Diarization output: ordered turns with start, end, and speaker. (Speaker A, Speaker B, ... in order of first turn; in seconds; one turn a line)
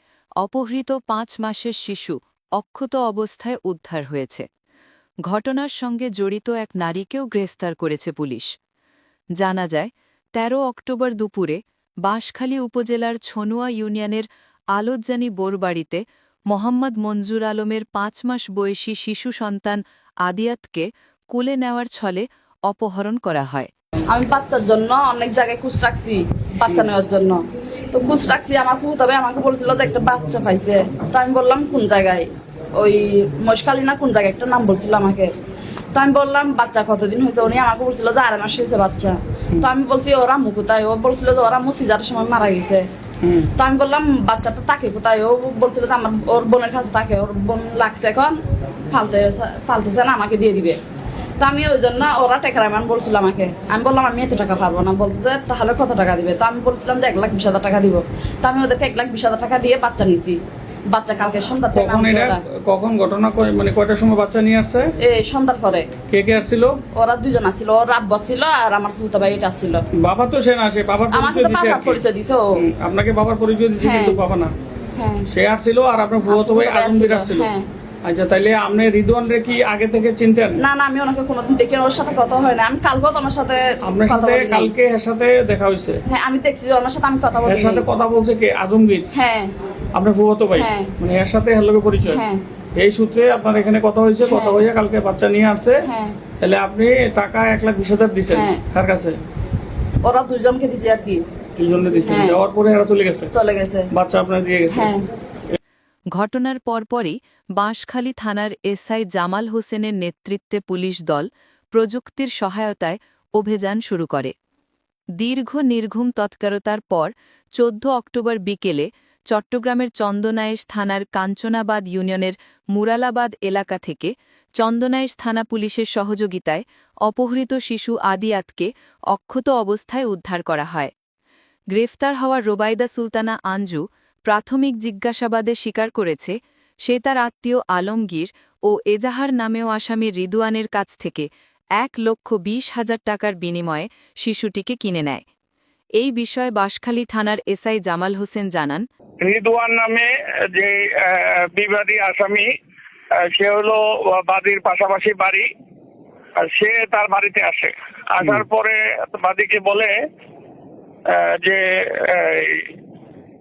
Speaker A: 0.4-4.5
Speaker A: 5.3-8.5
Speaker A: 9.4-23.7
Speaker B: 24.1-27.4
Speaker B: 27.9-35.3
Speaker B: 35.9-42.8
Speaker B: 43.6-48.4
Speaker B: 48.9-50.8
Speaker B: 51.4-60.4
Speaker B: 60.9-62.4
Speaker C: 61.8-63.1
Speaker D: 61.8-64.9
Speaker C: 63.8-64.9
Speaker B: 65.0-65.9
Speaker D: 66.1-66.8
Speaker C: 66.4-66.7
Speaker B: 66.9-69.8
Speaker D: 70.0-72.0
Speaker C: 70.1-70.5
Speaker B: 71.1-72.6
Speaker C: 71.3-71.8
Speaker C: 72.6-74.5
Speaker D: 72.8-74.5
Speaker B: 73.8-74.2
Speaker B: 75.0-75.3
Speaker D: 75.3-77.5
Speaker C: 75.4-75.8
Speaker B: 76.2-77.7
Speaker C: 76.6-77.4
Speaker D: 78.0-80.5
Speaker C: 79.7-80.5
Speaker B: 80.6-84.7
Speaker D: 83.9-86.0
Speaker C: 85.5-85.8
Speaker B: 86.1-87.9
Speaker D: 87.5-89.1
Speaker C: 87.8-89.0
Speaker B: 89.1-89.5
Speaker D: 90.0-92.2
Speaker C: 90.1-90.6
Speaker B: 90.5-90.9
Speaker C: 91.6-92.0
Speaker B: 92.0-92.4
Speaker D: 92.8-95.8
Speaker C: 93.0-93.8
Speaker B: 94.2-94.6
Speaker C: 94.5-95.7
Speaker B: 95.8-96.2
Speaker D: 96.4-99.1
Speaker C: 97.7-98.4
Speaker B: 98.3-98.6
Speaker B: 100.0-101.2
Speaker D: 101.6-103.2
Speaker B: 102.0-102.4
Speaker C: 102.2-103.2
Speaker B: 103.3-103.9
Speaker D: 104.0-104.9
Speaker B: 104.7-105.0
Speaker A: 106.1-114.3
Speaker A: 115.2-130.9
Speaker A: 131.7-141.3
Speaker A: 141.8-145.2
Speaker A: 146.0-148.8
Speaker C: 149.2-152.5
Speaker C: 153.2-155.5
Speaker C: 156.4-159.9
Speaker C: 161.1-162.7